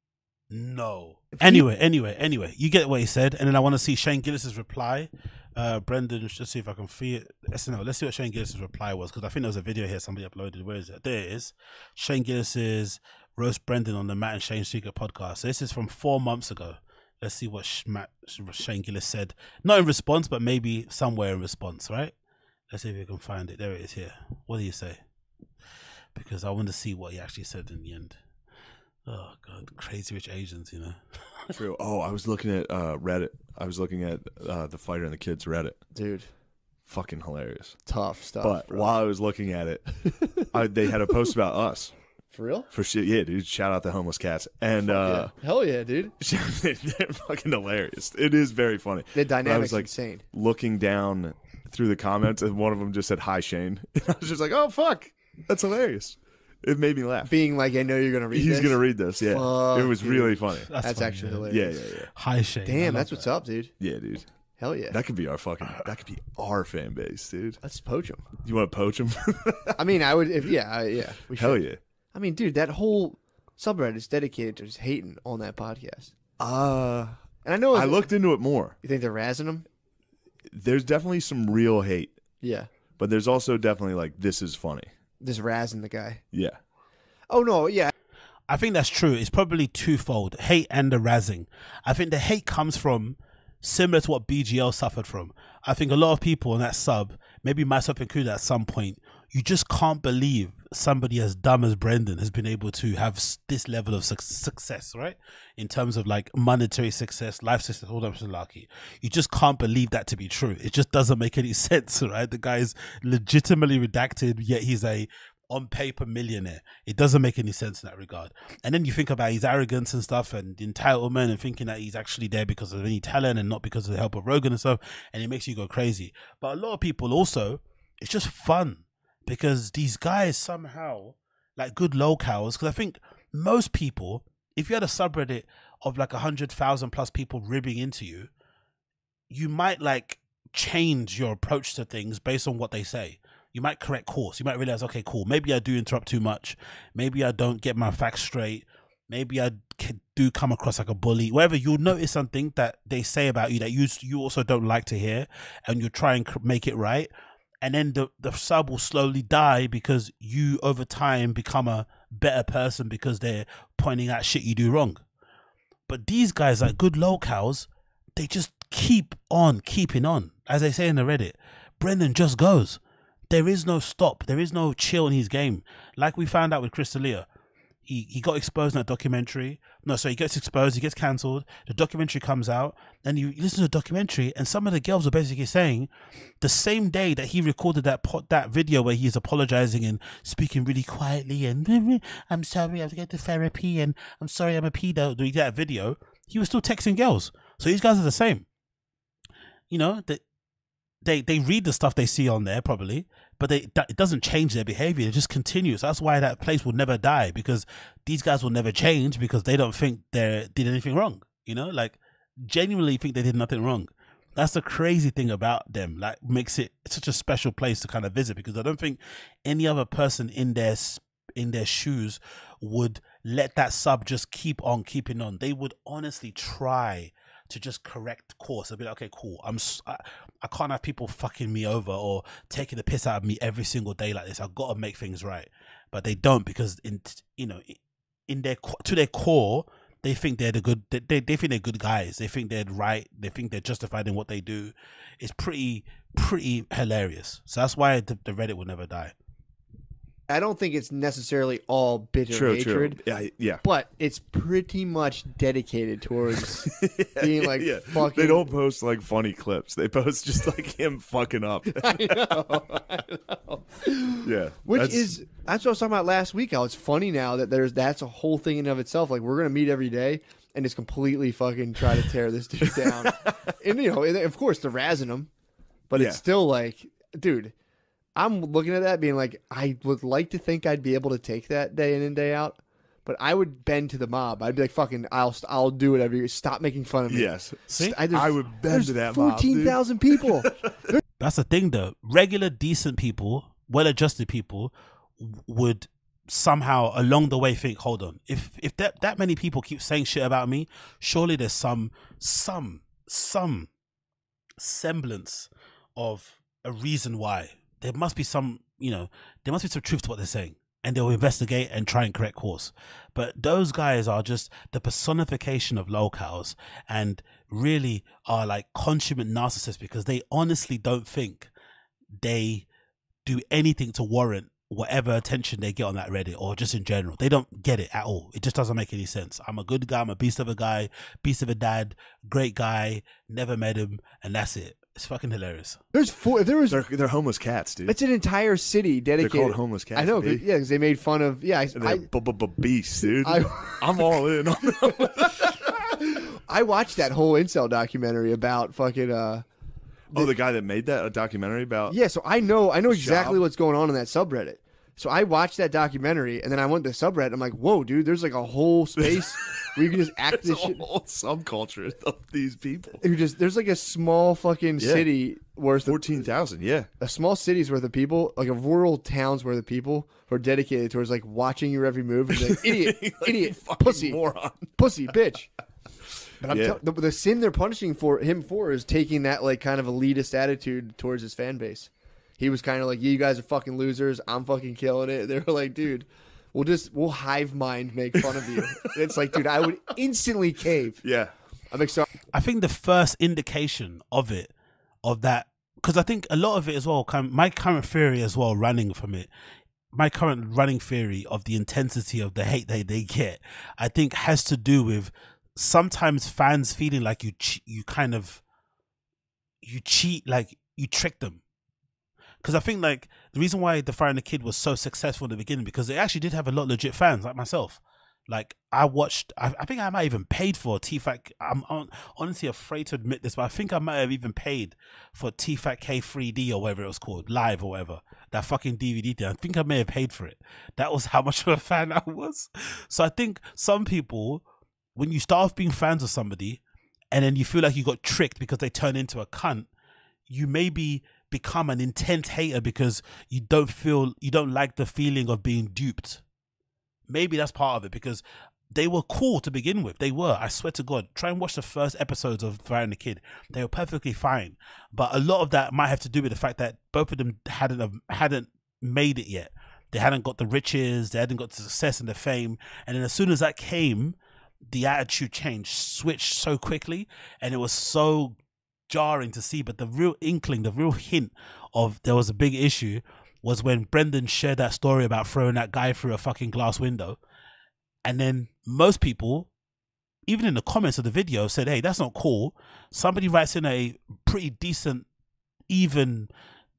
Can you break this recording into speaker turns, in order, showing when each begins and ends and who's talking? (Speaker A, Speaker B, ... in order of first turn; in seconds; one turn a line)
Speaker A: 0.5-22.1
Speaker A: 22.7-25.0
Speaker A: 26.1-28.2
Speaker A: 29.1-31.0
Speaker B: 31.6-35.8
Speaker C: 35.9-36.3
Speaker B: 36.9-37.8
Speaker C: 37.9-38.9
Speaker B: 38.4-42.0
Speaker C: 40.2-40.5
Speaker C: 42.3-42.7
Speaker B: 42.7-45.3
Speaker C: 44.9-46.1
Speaker B: 46.2-57.3
Speaker C: 49.1-50.2
Speaker C: 57.3-61.8
Speaker B: 58.3-60.7
Speaker A: 60.7-63.3
Speaker B: 61.5-62.1
Speaker C: 62.6-63.7
Speaker B: 63.8-64.3
Speaker C: 64.6-65.0
Speaker B: 64.9-67.6
Speaker C: 67.6-68.2
Speaker B: 68.4-70.0
Speaker C: 69.8-76.2
Speaker B: 71.3-71.8
Speaker B: 76.4-78.8
Speaker C: 77.3-78.2
Speaker C: 78.8-79.7
Speaker B: 80.5-82.2
Speaker C: 82.4-82.7
Speaker B: 83.0-84.9
Speaker C: 85.2-86.2
Speaker B: 86.3-86.6
Speaker C: 87.3-87.9
Speaker A: 88.5-138.3
Speaker A: 139.3-157.1
Speaker A: 157.6-165.0
Speaker A: 165.9-177.3
Speaker A: 177.9-185.9
Speaker A: 186.4-198.4
Speaker A: 199.7-200.2
Speaker A: 201.0-249.1
Speaker C: 250.3-253.0
Speaker B: 252.3-253.6
Speaker C: 253.6-258.5
Speaker B: 256.6-262.8
Speaker C: 261.7-275.3
Speaker B: 264.2-265.2
Speaker C: 275.9-277.5
Speaker B: 275.9-276.2
Speaker C: 278.1-291.0
Speaker B: 287.1-290.6
Speaker A: 287.7-288.0
Speaker A: 291.2-303.7
Speaker A: 304.6-321.5
Speaker A: 322.2-322.7
Speaker A: 323.2-335.8
Speaker C: 335.9-336.8
Speaker B: 336.7-337.9
Speaker C: 337.9-342.1
Speaker B: 339.2-340.4
Speaker B: 341.7-345.4
Speaker C: 343.1-344.2
Speaker C: 346.1-349.4
Speaker B: 350.1-352.0
Speaker C: 351.9-360.9
Speaker B: 352.9-353.4
Speaker B: 359.0-363.0
Speaker C: 363.0-366.1
Speaker B: 364.8-365.1
Speaker B: 365.9-366.9
Speaker C: 367.0-375.5
Speaker B: 372.3-374.8
Speaker C: 376.4-391.0
Speaker B: 376.4-376.8
Speaker B: 388.6-388.9
Speaker B: 391.0-391.4
Speaker C: 391.7-392.1
Speaker A: 392.3-394.5
Speaker A: 395.0-399.3
Speaker A: 399.9-408.4
Speaker A: 409.6-411.4
Speaker A: 412.4-434.4
Speaker A: 435.0-436.6
Speaker A: 437.1-439.7
Speaker A: 440.3-446.2
Speaker A: 447.1-468.4
Speaker A: 468.9-477.2
Speaker A: 478.1-479.5
Speaker A: 480.3-485.1
Speaker A: 485.7-486.3